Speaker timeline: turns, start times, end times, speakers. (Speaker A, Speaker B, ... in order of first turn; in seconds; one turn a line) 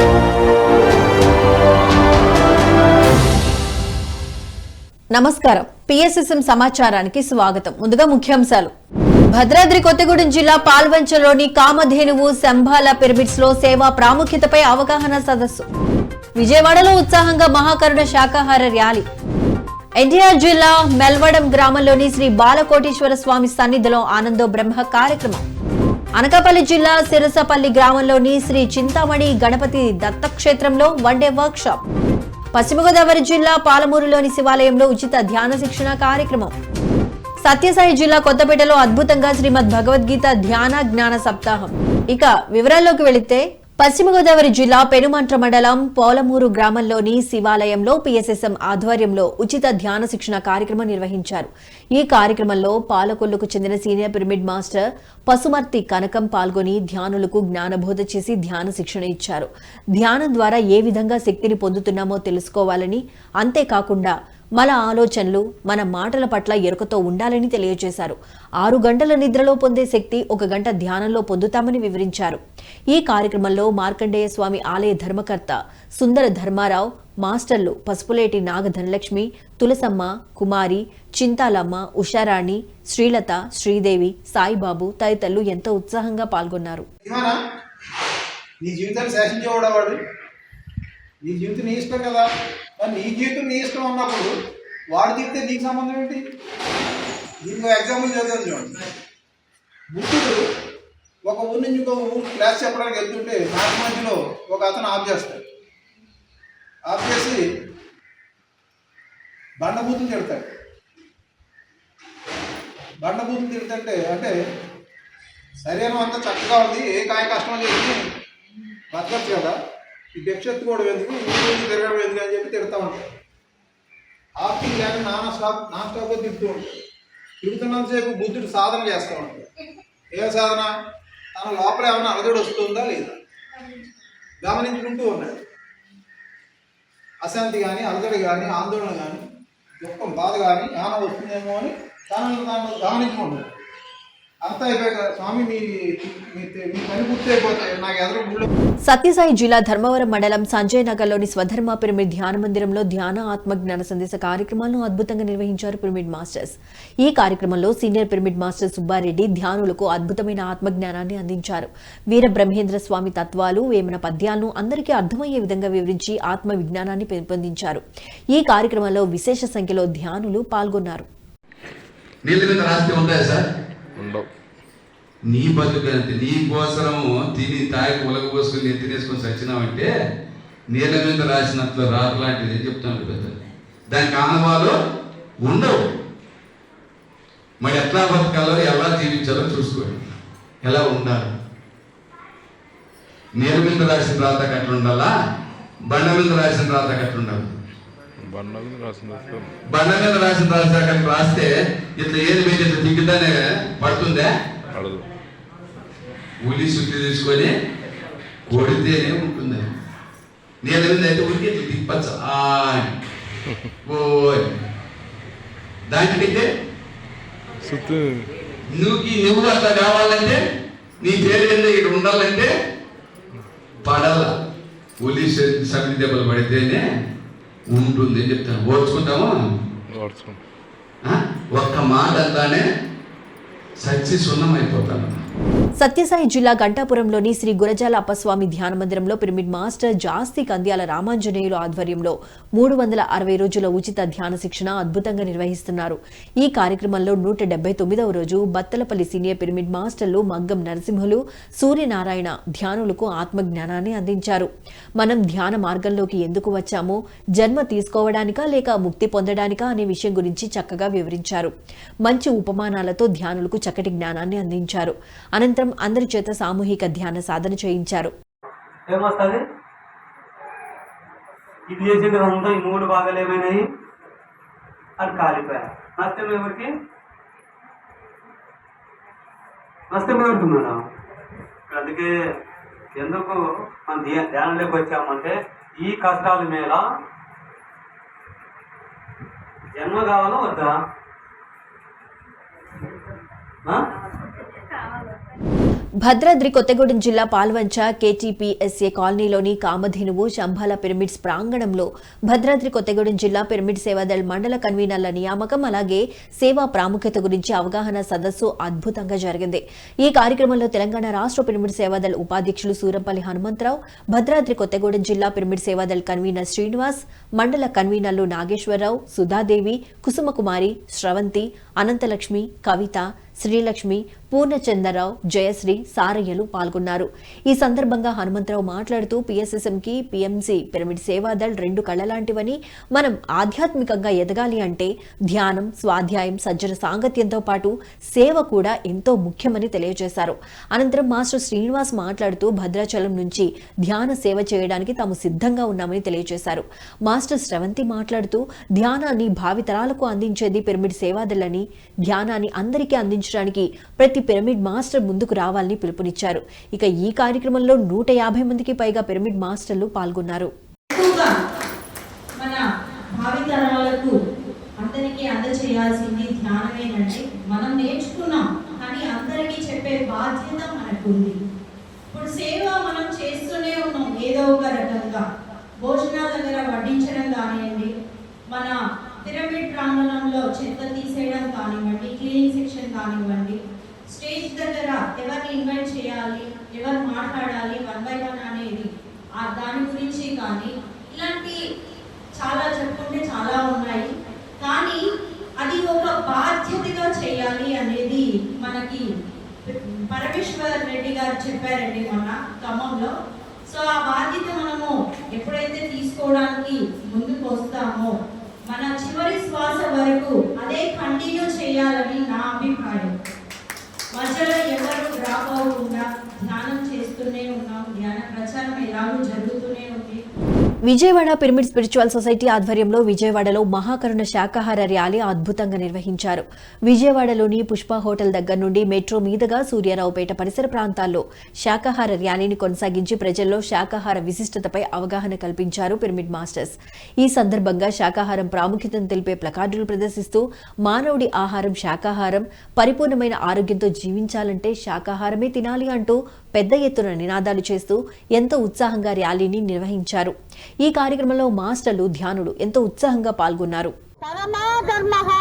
Speaker A: 5.1-8.7
Speaker A: 9.3-15.7
Speaker A: 16.4-19.1
Speaker A: 20.0-25.4
Speaker A: 26.2-31.8
Speaker A: 32.5-36.5
Speaker A: 37.4-72.4
Speaker A: 72.9-86.9
Speaker B: 87.0-87.4
Speaker B: 88.6-90.0
Speaker B: 91.2-92.3
Speaker B: 92.8-94.3
Speaker B: 94.9-96.2
Speaker B: 97.4-98.8
Speaker B: 99.9-100.4
Speaker B: 101.3-105.4
Speaker B: 106.9-107.4
Speaker B: 109.6-110.5
Speaker B: 113.0-114.3
Speaker B: 115.6-118.0
Speaker B: 118.9-119.6
Speaker B: 120.2-123.0
Speaker B: 124.4-126.8
Speaker B: 127.4-129.5
Speaker B: 130.1-130.7
Speaker B: 131.3-133.2
Speaker B: 134.4-135.3
Speaker B: 137.2-139.2
Speaker B: 139.8-143.5
Speaker B: 144.4-148.5
Speaker A: 148.8-171.1
Speaker C: 172.3-173.4
Speaker D: 174.0-174.3
Speaker C: 175.3-179.9
Speaker C: 180.7-183.4
Speaker C: 183.9-184.7
Speaker C: 185.4-185.8
Speaker C: 187.6-190.0
Speaker C: 190.6-191.3
Speaker C: 193.4-195.1
Speaker C: 195.9-197.5
Speaker D: 198.2-199.5
Speaker C: 199.7-204.3
Speaker D: 204.7-205.1
Speaker C: 206.5-207.5
Speaker C: 208.5-209.6
Speaker C: 210.7-212.9
Speaker C: 213.9-214.5
Speaker C: 215.9-216.5
Speaker D: 217.6-218.3
Speaker C: 218.8-220.4
Speaker C: 221.0-222.5
Speaker C: 223.8-224.3
Speaker C: 225.0-226.8
Speaker C: 227.8-229.3
Speaker D: 229.9-230.4
Speaker C: 231.1-232.6
Speaker C: 233.8-235.2
Speaker A: 235.8-261.5
Speaker A: 262.1-268.1
Speaker E: 268.9-269.4
Speaker E: 271.7-273.6
Speaker E: 275.0-276.7
Speaker E: 279.9-280.8
Speaker E: 281.7-282.1
Speaker E: 283.0-286.8
Speaker E: 289.8-290.7
Speaker A: 296.0-360.5
Speaker F: 360.9-361.3
Speaker F: 363.2-364.1
Speaker F: 364.8-371.4
Speaker F: 372.1-375.2
Speaker F: 375.8-377.9
Speaker F: 378.5-383.6
Speaker F: 384.1-391.6
Speaker F: 392.4-394.1
Speaker F: 394.6-395.0
Speaker F: 395.6-399.0
Speaker F: 399.7-403.1
Speaker F: 403.7-408.1
Speaker F: 408.7-413.1
Speaker F: 414.2-420.2
Speaker A: 420.9-453.9